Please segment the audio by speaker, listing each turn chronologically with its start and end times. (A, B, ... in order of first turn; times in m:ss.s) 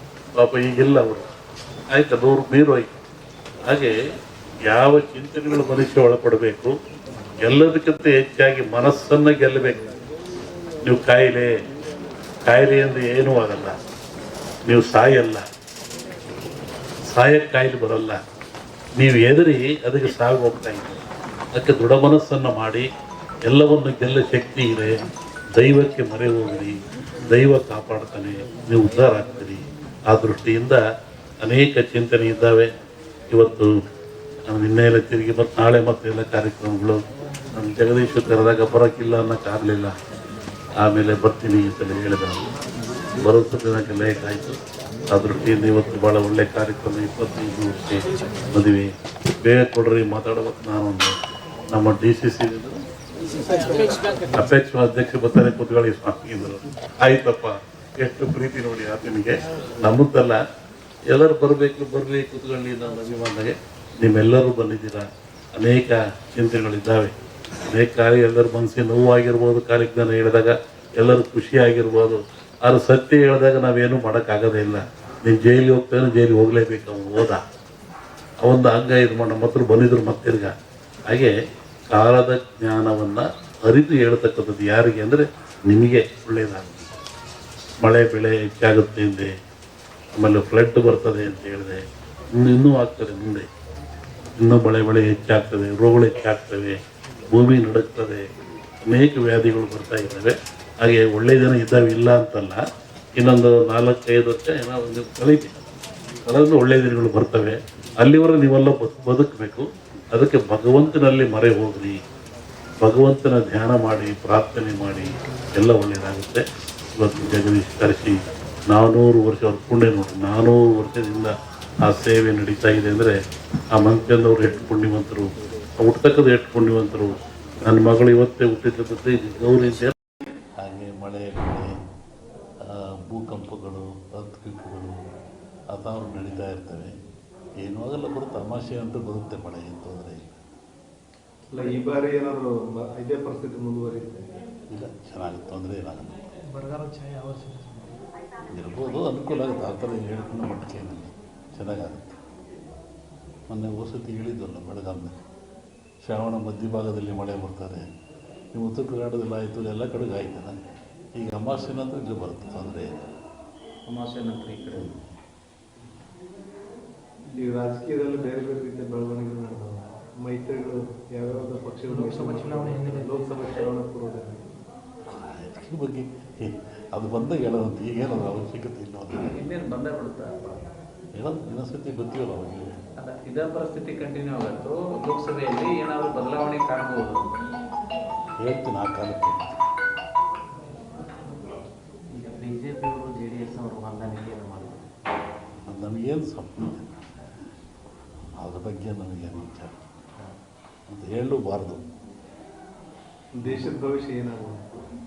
0:00.4-0:01.2 A
0:01.9-0:02.9 A
0:03.7-0:04.0 A
0:04.7-0:06.8 A
0:07.4-0:09.8 A
0:10.8-0:11.5 A
0:12.4-0:13.8 A
0:14.7-0:15.4 A
0:17.0-0:18.2 A
0:19.0-0:21.0 A
0:21.6-0:22.9 A
0:23.5-0:25.0 A
0:25.6-0:26.8 A
0:27.3-0:30.8 A
0:31.4-0:32.7 A
0:33.3-0:33.8 A
0:34.5-0:37.0 A
0:37.5-0:39.9 A
0:40.8-0:42.4 A
0:43.2-0:44.6 A
0:45.1-0:48.9 A
0:49.4-0:51.2 A
0:51.7-0:52.8 A
0:54.4-1:00.4 A
1:01.1-1:07.1 A
1:07.7-1:17.4 A
1:18.4-1:20.5 A
1:21.1-1:21.3 A
1:21.9-1:26.9 A
1:27.8-1:29.3 A
1:30.1-1:31.8 A
1:32.4-1:33.5 A
1:34.4-1:36.8 A
1:37.3-1:38.3 A
1:38.9-1:42.6 A
1:43.2-1:45.6 A
1:46.3-1:52.0 A
1:52.8-1:56.4 A
1:57.0-2:01.3 A
2:01.9-2:03.2 A
2:03.8-2:09.9 A
2:10.6-2:11.7 A
2:12.7-2:15.0 A
2:15.7-2:16.9 A
2:17.6-2:20.4 A
2:21.5-2:24.3 B
2:24.7-2:26.2 A
2:26.5-2:28.0 C
2:28.5-2:32.2 A
2:33.5-2:35.2 A
2:36.0-2:37.8 A
2:38.5-2:40.6 A
2:41.2-2:43.1 A
2:43.9-2:44.9 D
2:47.3-2:54.5 B
2:51.9-2:53.2 C
2:53.3-2:53.7 D
2:55.1-2:59.3 A
2:59.2-3:00.6 D
3:01.2-3:02.8 A
3:03.0-3:07.3 D
3:08.4-3:09.6 A
3:12.1-3:14.9 E
3:15.6-3:17.1 A
3:18.4-3:19.9 A
3:20.9-3:21.8 A
3:23.3-3:24.7 B